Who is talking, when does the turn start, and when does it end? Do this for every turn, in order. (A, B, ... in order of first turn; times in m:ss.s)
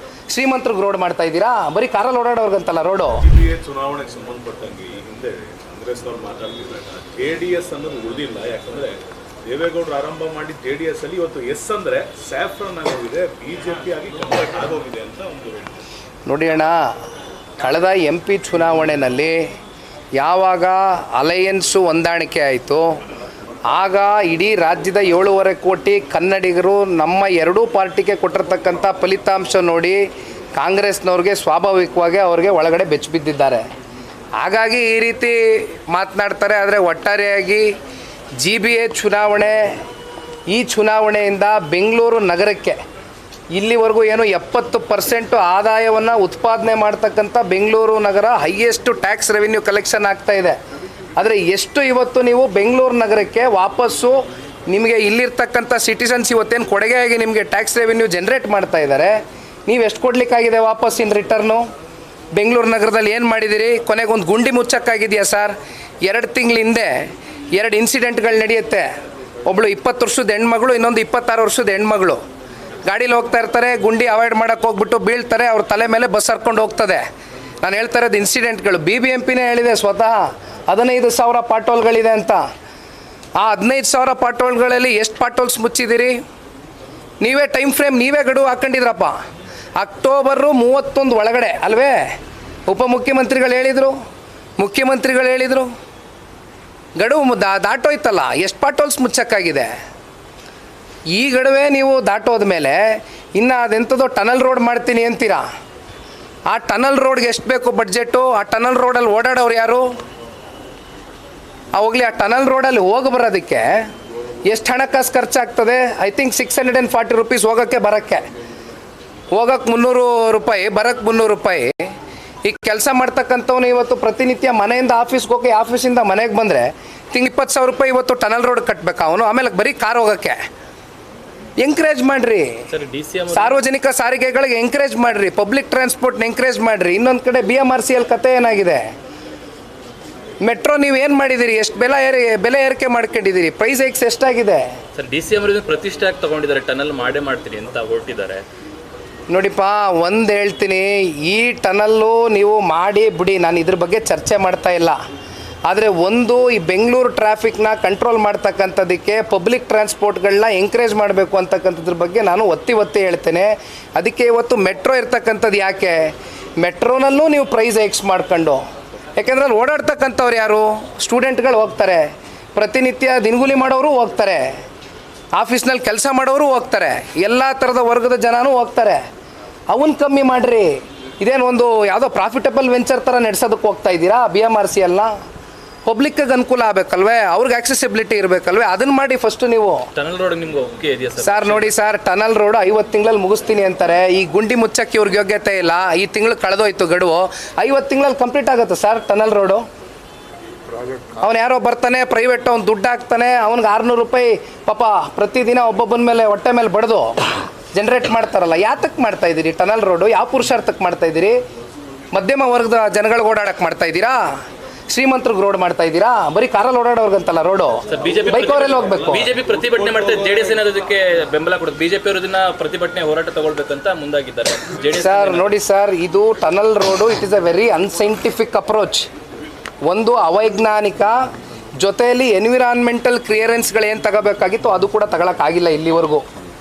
0:00.3-0:03.2 A
0:03.2-0:15.8 B
0:16.3-0:16.9 A
0:17.6-0:19.4 A
0:20.2-0:23.0 A
0:23.7-0:30.0 A
0:30.6-0:33.6 A
0:34.4-0:37.7 A
0:38.4-0:39.8 A
0:40.5-0:42.8 A
0:43.5-0:50.6 A
0:51.2-1:01.6 A
1:02.3-1:08.8 A
1:09.5-1:12.2 A
1:12.8-1:17.0 A
1:17.6-1:22.4 A
1:23.4-1:26.2 A
1:27.2-1:29.1 A
1:29.8-1:32.1 A
1:32.7-1:33.9 A
1:34.6-1:35.7 A
1:37.0-1:39.7 A
1:41.1-1:45.4 A
1:46.5-1:49.9 A
1:51.7-1:53.9 A
1:54.4-1:58.2 A
1:59.3-2:01.9 A
2:02.4-2:10.4 A
2:11.6-2:12.6 A
2:12.7-2:13.6 C
2:13.3-2:18.9 A
2:20.4-2:24.6 A
2:24.9-2:28.4 C
2:29.3-2:35.0 A
2:35.7-2:48.6 A
2:49.2-2:54.5 A
2:55.3-2:59.0 A
2:59.7-3:05.1 A
3:05.8-3:09.9 A
3:09.9-3:11.7 C
3:11.2-3:19.6 A
3:21.2-3:31.4 A
3:32.1-3:34.3 A
3:34.9-3:39.3 A
3:37.9-3:45.5 C
3:45.0-3:49.1 A
3:49.9-3:51.2 A
3:51.8-3:56.2 A